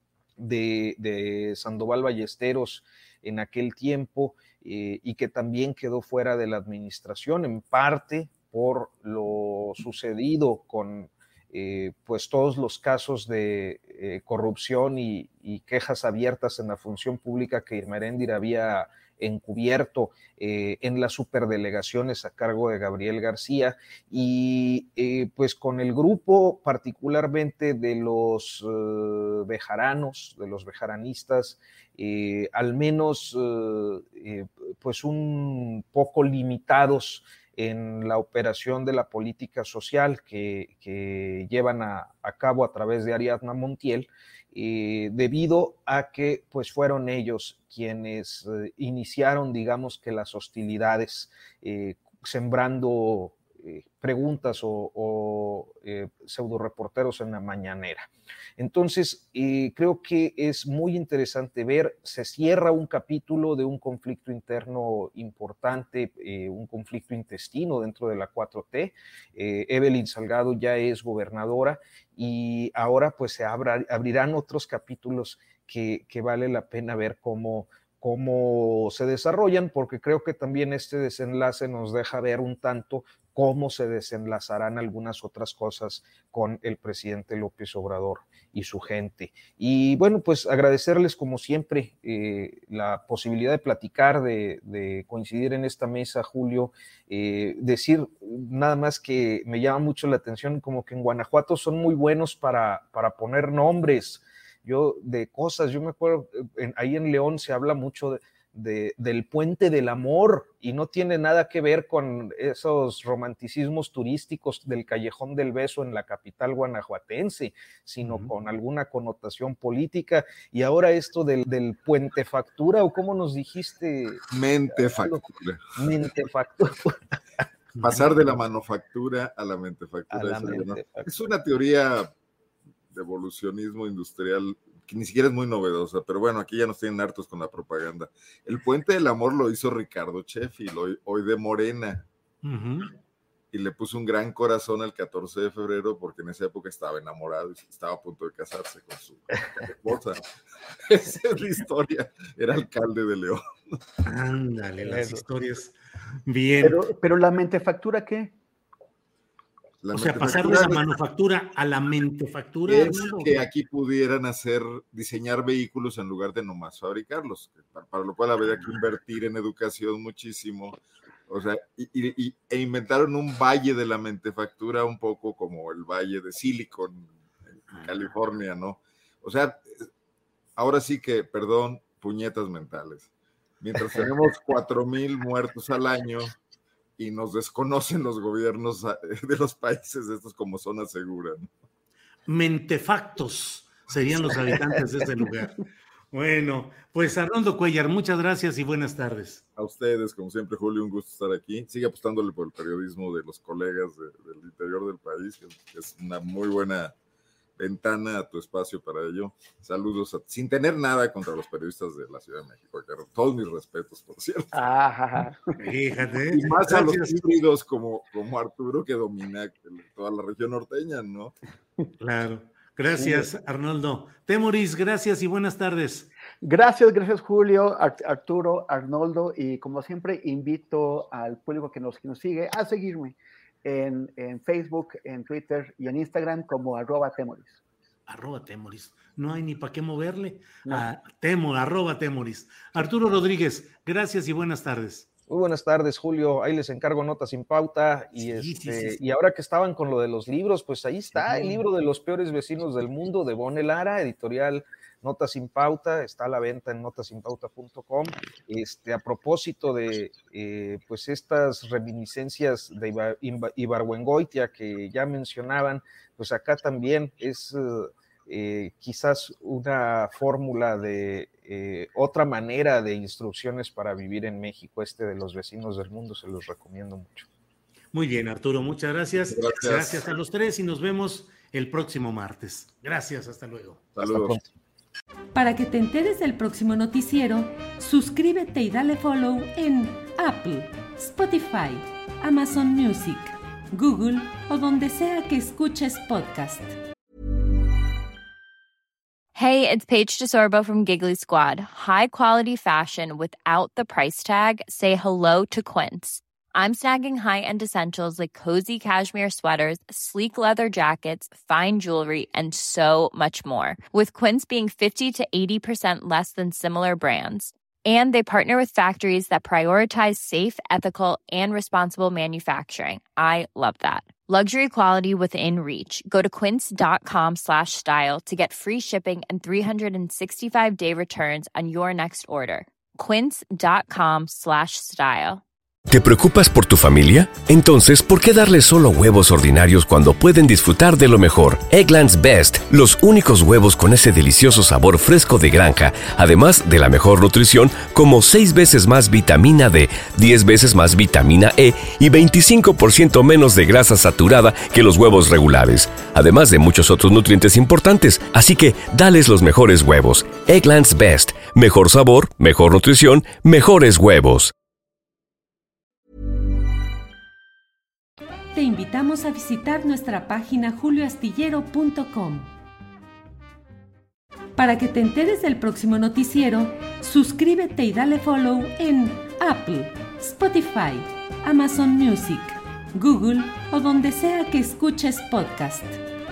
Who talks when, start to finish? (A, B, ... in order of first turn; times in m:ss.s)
0:00.4-2:05.2 A
1:58.0-1:58.3 B
2:04.3-2:05.6 C
2:05.8-2:07.2 A
2:07.7-2:08.1 B
2:07.8-2:12.1 C
2:10.1-2:11.1 A
2:12.9-2:22.0 C
2:22.4-2:22.9 B
2:23.5-2:30.2 C
2:30.8-2:33.7 C
2:34.0-2:36.8 B
2:34.8-2:35.2 A
2:36.6-2:38.3 D
2:39.8-2:40.8 C
2:39.9-2:43.4 B
2:42.7-2:57.1 C
2:57.7-2:59.8 C
3:00.6-3:06.3 C
3:07.0-3:11.5 C
3:12.3-3:19.4 B
3:19.6-3:26.9 C
3:27.6-3:34.6 C
3:34.5-3:35.4 D
3:35.6-3:37.2 B
3:36.3-3:41.3 C
3:42.0-3:46.1 B
3:42.9-3:43.3 D
3:46.4-3:57.6 D
3:58.1-4:05.1 B
4:05.3-4:37.3 A
4:08.2-4:09.0 B
4:11.2-4:11.6 B
4:37.9-4:43.8 B
4:39.3-4:40.1 C
4:43.9-4:44.4 C
4:44.0-4:44.5 A
4:45.3-4:56.8 E
4:59.3-5:35.4 F
5:35.9-6:04.5 G
6:08.5-6:12.5 E
6:14.6-6:26.0 E